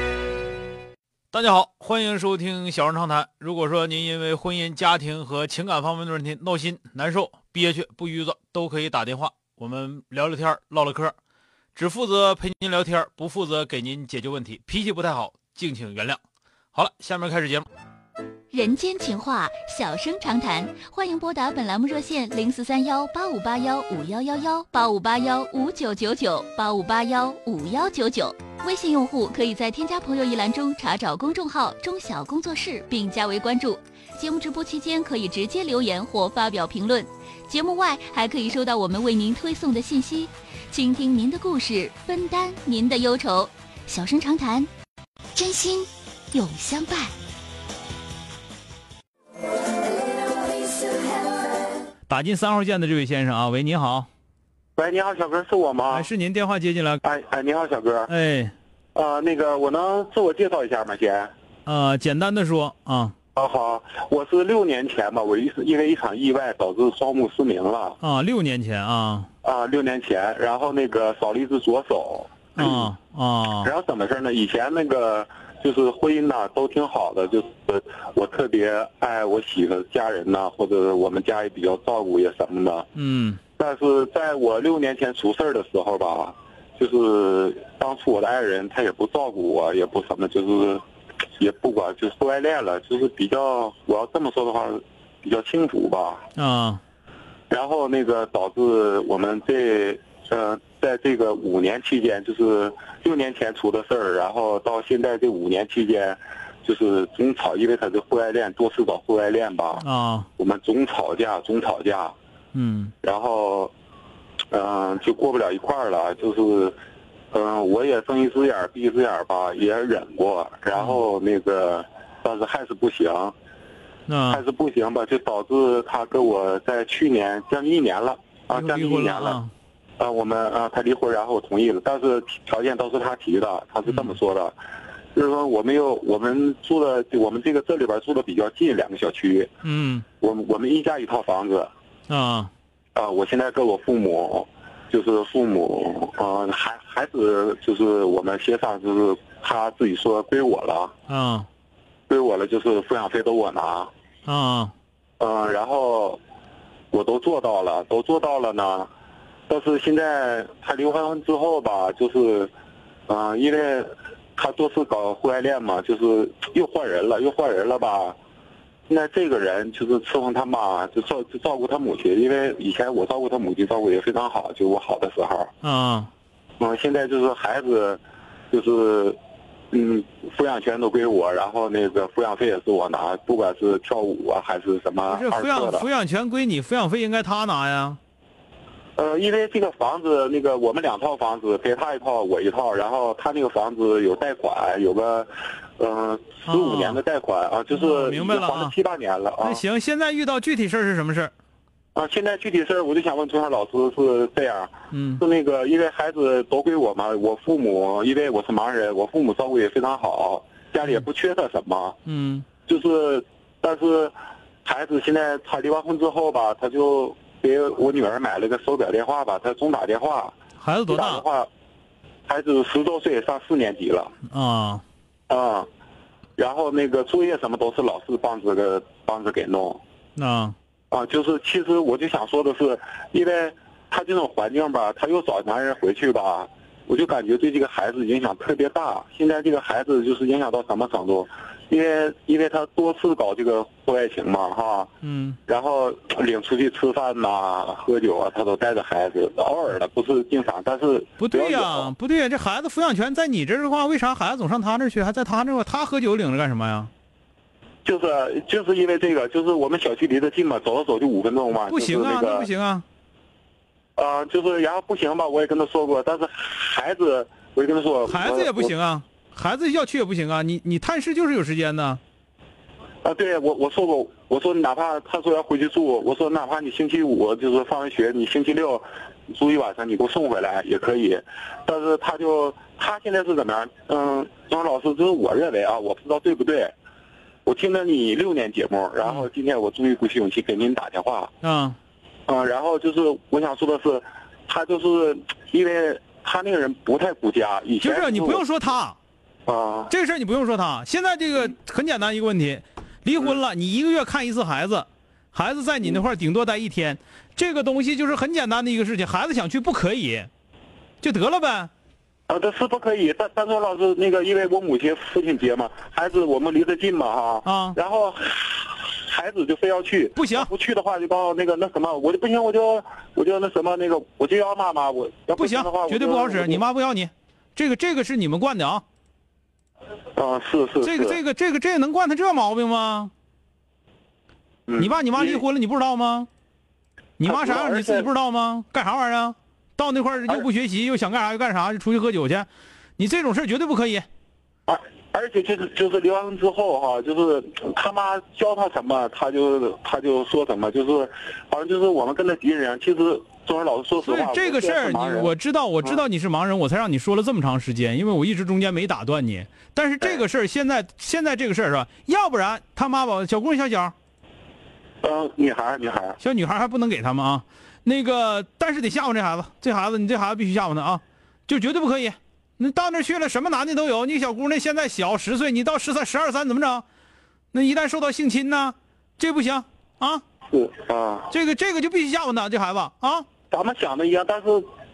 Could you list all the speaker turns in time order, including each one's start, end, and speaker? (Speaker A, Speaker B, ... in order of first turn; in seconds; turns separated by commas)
Speaker A: 1.3-11.2, Speaker A: 11.8-16.2, Speaker A: 16.7-17.7, Speaker B: 18.5-44.7, Speaker B: 45.4-47.1, Speaker A: 52.1-54.1, Speaker C: 54.8-56.1, Speaker A: 55.9-57.0, Speaker C: 57.0-58.1, Speaker A: 58.1-58.5, Speaker C: 58.9-61.3, Speaker A: 61.7-63.1, Speaker C: 63.4-68.0, Speaker A: 68.0-69.3, Speaker C: 69.4-72.9, Speaker A: 72.6-73.7, Speaker C: 73.6-82.9, Speaker A: 83.0-83.4, Speaker C: 83.6-90.8, Speaker C: 91.4-96.2, Speaker A: 96.4-96.8, Speaker C: 97.5-109.9, Speaker A: 109.8-110.3, Speaker C: 110.4-112.2, Speaker A: 112.5-112.9, Speaker C: 113.0-113.7, Speaker C: 114.5-116.8, Speaker C: 117.3-123.3, Speaker A: 124.1-124.4, Speaker C: 124.3-129.4, Speaker A: 128.5-129.5, Speaker C: 130.0-134.6, Speaker A: 133.9-134.1, Speaker C: 135.2-139.5, Speaker A: 139.6-140.1, Speaker C: 140.2-141.7, Speaker A: 142.1-142.5, Speaker C: 142.9-150.9, Speaker A: 151.1-151.5, Speaker C: 152.1-153.9, Speaker A: 154.3-154.7, Speaker C: 155.2-156.2, Speaker C: 156.9-158.9, Speaker C: 159.5-162.5, Speaker C: 163.1-168.2, Speaker C: 168.9-175.5, Speaker A: 175.6-176.1, Speaker C: 176.6-179.2, Speaker C: 179.7-185.9, Speaker A: 185.1-188.0, Speaker C: 189.0-199.6, Speaker A: 196.5-197.0, Speaker A: 197.7-198.8, Speaker A: 199.4-201.3, Speaker C: 201.9-212.0, Speaker A: 204.9-205.2, Speaker A: 212.1-212.5, Speaker C: 212.7-220.3, Speaker A: 220.6-221.2, Speaker C: 220.9-221.5, Speaker C: 222.3-224.1, Speaker A: 224.3-224.8, Speaker C: 225.3-225.7, Speaker C: 226.4-229.8, Speaker A: 230.2-230.6, Speaker C: 230.9-244.9, Speaker A: 245.0-245.4, Speaker C: 245.5-251.9, Speaker A: 251.2-256.9, Speaker C: 257.9-262.5, Speaker A: 261.7-262.9, Speaker C: 264.0-268.7, Speaker A: 268.1-272.0, Speaker C: 273.0-286.7, Speaker C: 287.4-291.3, Speaker A: 291.4-291.8, Speaker C: 292.3-298.4, Speaker A: 297.8-299.0, Speaker C: 299.5-299.9, Speaker A: 299.9-310.3, Speaker A: 311.0-311.7, Speaker C: 312.3-326.6, Speaker A: 317.4-317.8, Speaker A: 320.2-320.5, Speaker A: 325.4-328.8, Speaker C: 330.2-331.2, Speaker A: 330.8-333.1, Speaker C: 334.7-335.4, Speaker A: 334.8-336.3, Speaker A: 337.2-344.1, Speaker C: 337.2-338.1, Speaker C: 344.7-355.3, Speaker A: 354.0-363.9, Speaker C: 365.0-366.2, Speaker A: 366.2-376.9, Speaker A: 377.5-380.2, Speaker C: 380.5-381.3, Speaker A: 381.3-383.3, Speaker C: 383.5-384.7